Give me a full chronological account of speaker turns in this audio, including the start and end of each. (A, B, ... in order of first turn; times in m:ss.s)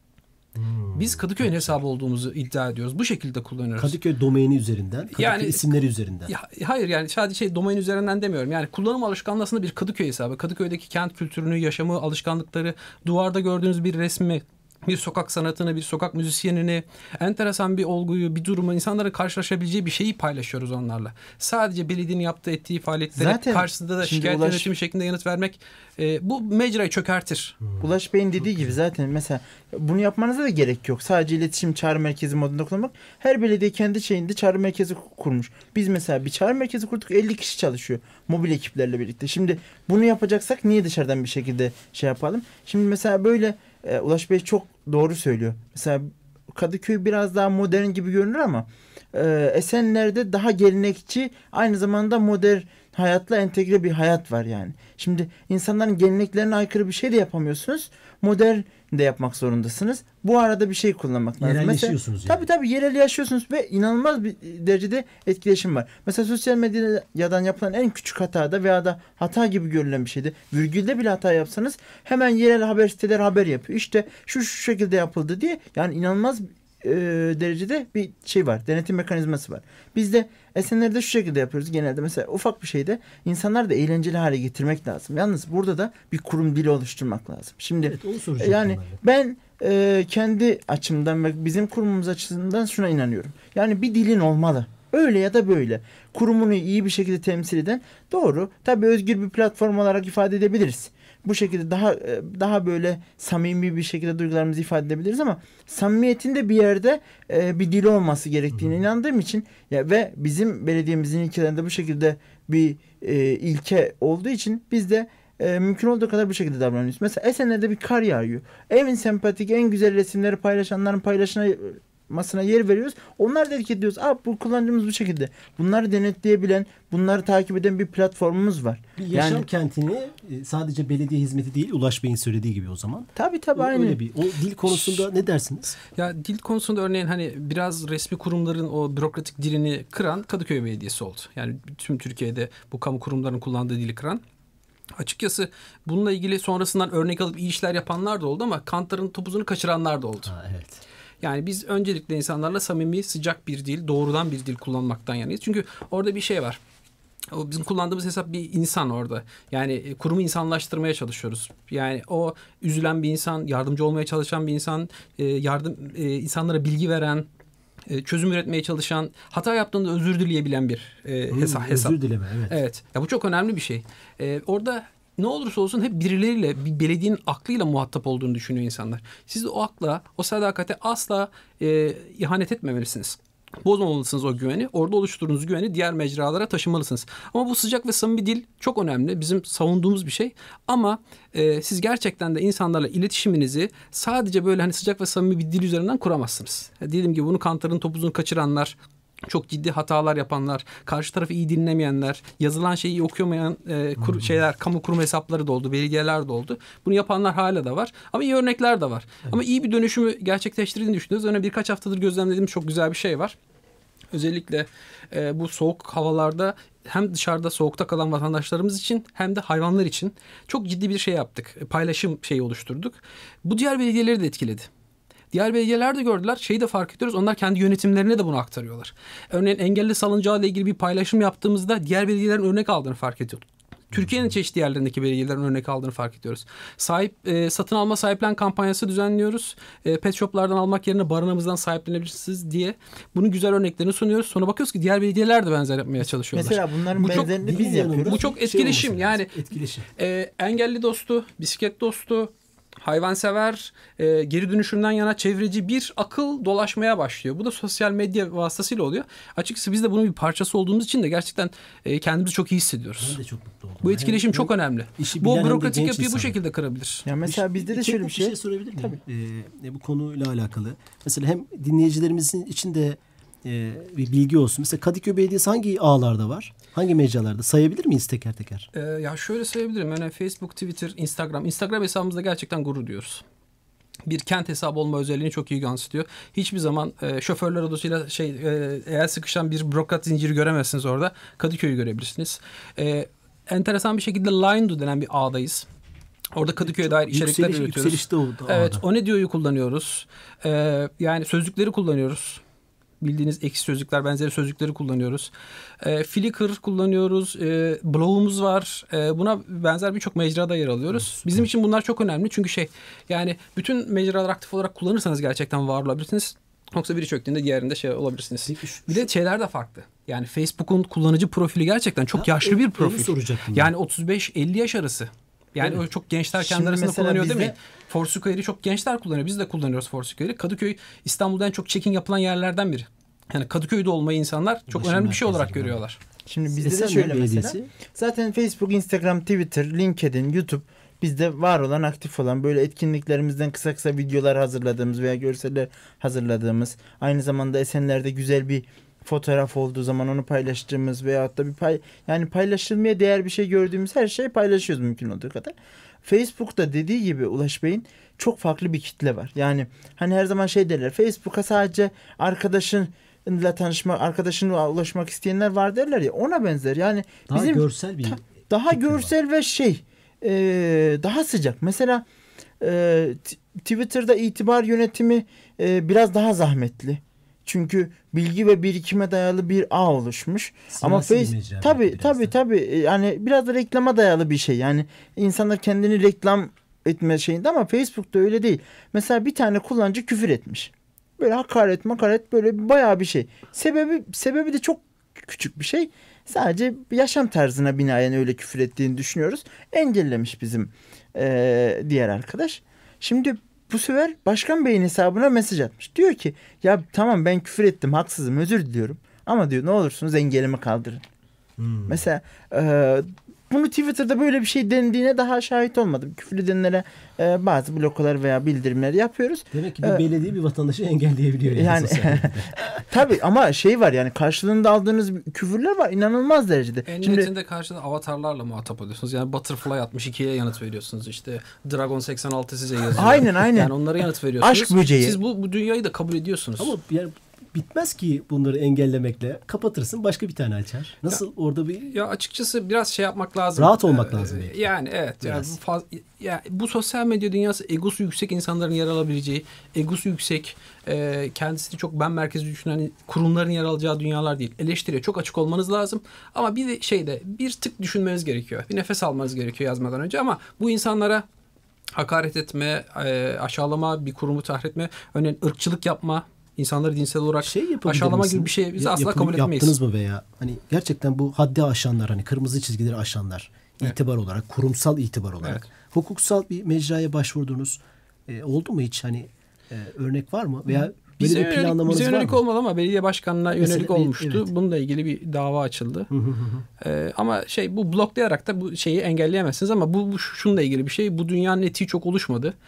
0:00.6-0:01.8 A
0:01.0-0:04.0 B
0:03.8-0:06.3 A
0:05.2-0:05.8 B
0:06.3-0:27.6 B
0:23.2-0:24.7 C
0:27.8-2:09.5 C
1:01.4-1:02.5 A
1:27.8-1:29.0 A
2:09.0-2:15.8 A
2:13.2-2:14.0 C
2:14.7-2:15.0 B
2:16.0-2:24.2 B
2:25.0-2:30.3 B
2:30.2-2:30.8 A
2:31.2-2:36.6 B
2:37.3-2:47.3 B
2:47.9-2:52.0 B
2:51.3-2:52.6 A
2:52.5-3:33.4 B
3:24.0-3:24.4 A
3:34.1-3:44.7 B
3:45.3-4:07.3 B
3:54.0-3:54.2 A
4:06.3-4:08.2 C
4:07.0-4:09.9 A
4:08.1-4:09.4 B
4:10.0-4:23.2 B
4:23.0-4:26.4 A
4:23.8-4:27.1 B
4:27.1-4:29.0 C
4:27.2-4:38.7 A
4:38.7-4:43.2 B
4:44.1-4:55.7 B
4:56.4-5:02.4 B
4:56.6-4:58.8 A
5:03.0-5:36.0 B
5:10.9-5:11.5 A
5:18.4-5:19.1 A
5:22.2-5:23.7 A
5:26.4-5:27.5 C
5:34.7-5:35.8 A
5:36.3-6:12.0 C
5:36.5-5:37.7 A
6:07.3-6:09.1 A
6:12.6-6:51.0 C
6:20.7-6:22.3 A
6:51.6-6:52.0 A
6:51.9-7:00.0 C
6:59.5-7:02.8 A
7:01.5-7:07.3 C
7:06.9-7:16.7 B
7:12.9-7:13.8 C
7:14.4-7:15.2 C
7:16.6-7:22.0 A
7:21.9-7:41.3 B
7:23.6-7:24.7 A
7:25.2-7:25.6 A
7:41.9-7:49.8 B
7:47.4-8:02.4 A
8:00.8-8:06.1 B
8:03.6-8:04.5 A
8:06.1-8:06.6 A
8:06.8-8:12.5 B